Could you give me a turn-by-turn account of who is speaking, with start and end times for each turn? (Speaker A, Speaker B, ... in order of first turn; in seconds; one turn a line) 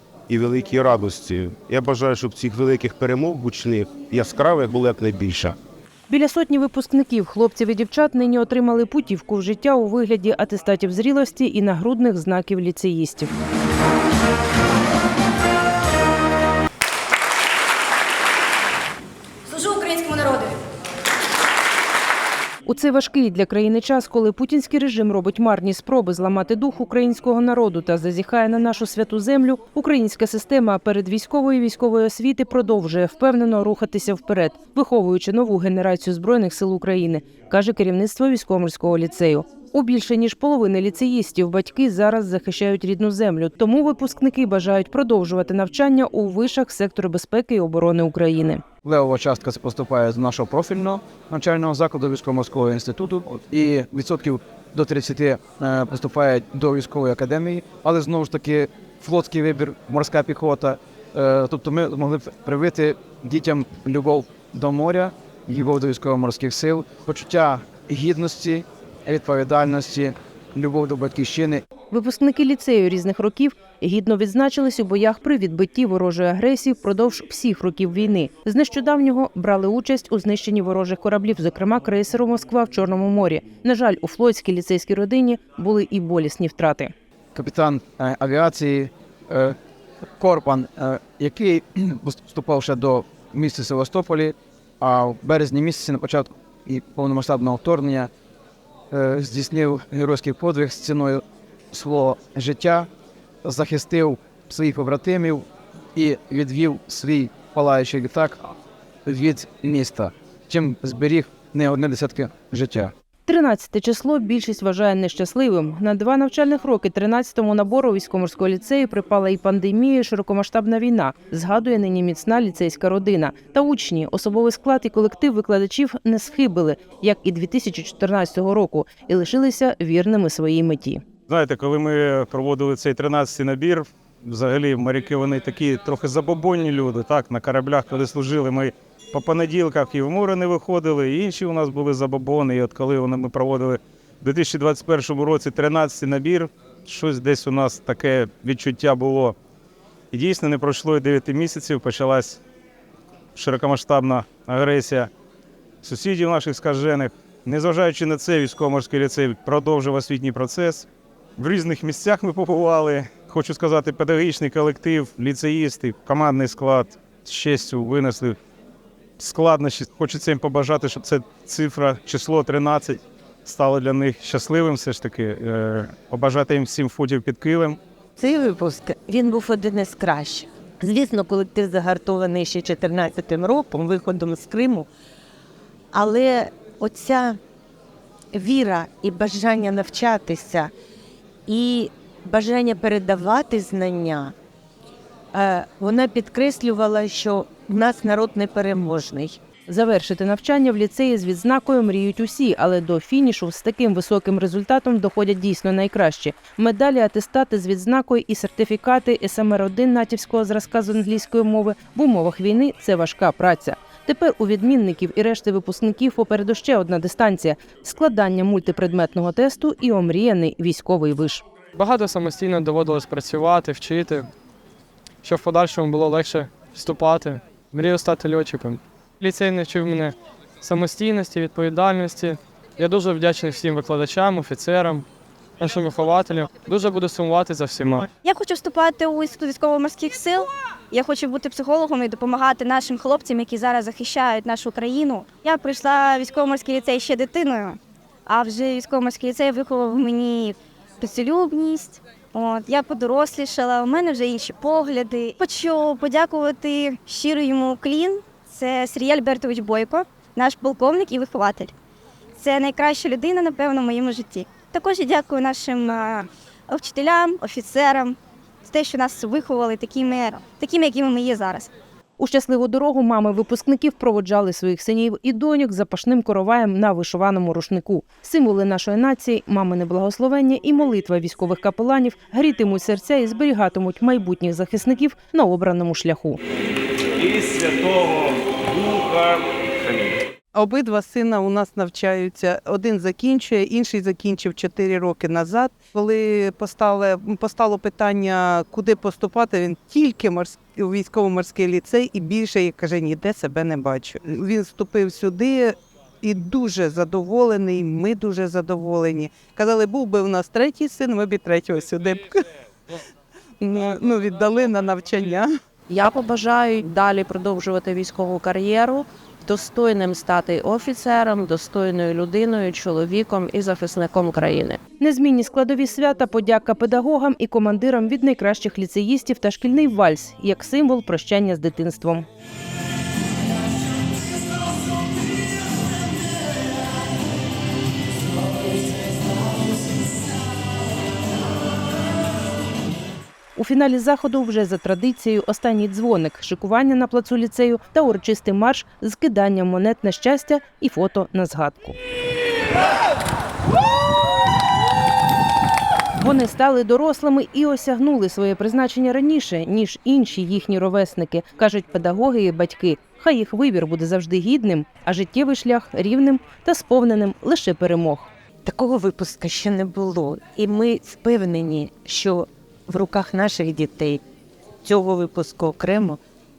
Speaker A: 0.3-5.5
Speaker B: 6.1-13.3
Speaker B: 22.6-48.6
Speaker C: 48.8-71.7
Speaker B: 71.9-86.9
Speaker C: 87.3-89.6
Speaker C: 90.2-98.1
Speaker C: 98.9-102.9
Speaker C: 103.4-108.5
Speaker C: 109.0-112.9
Speaker B: 113.3-131.0
Speaker D: 131.3-149.3
Speaker D: 150.1-152.4
Speaker D: 153.3-155.1
Speaker D: 155.8-160.9
Speaker D: 161.4-168.4
Speaker D: 169.2-177.8
Speaker E: 178.2-184.9
Speaker E: 185.9-187.4
Speaker E: 188.3-190.7
Speaker E: 191.5-194.3
Speaker E: 195.3-199.4
Speaker B: 199.7-221.4
Speaker F: 221.8-224.3
Speaker F: 225.2-235.1
Speaker F: 235.6-238.1
Speaker G: 238.2-261.7
Speaker G: 262.4-271.7
Speaker B: 272.2-286.4
Speaker D: 287.4-287.8
Speaker H: 290.5-312.4
Speaker H: 313.6-315.5
Speaker I: 315.9-324.8
Speaker B: 325.0-332.3
Speaker B: 343.6-352.0
Speaker B: 356.2-368.3
Speaker E: 368.6-374.2
Speaker E: 374.8-376.2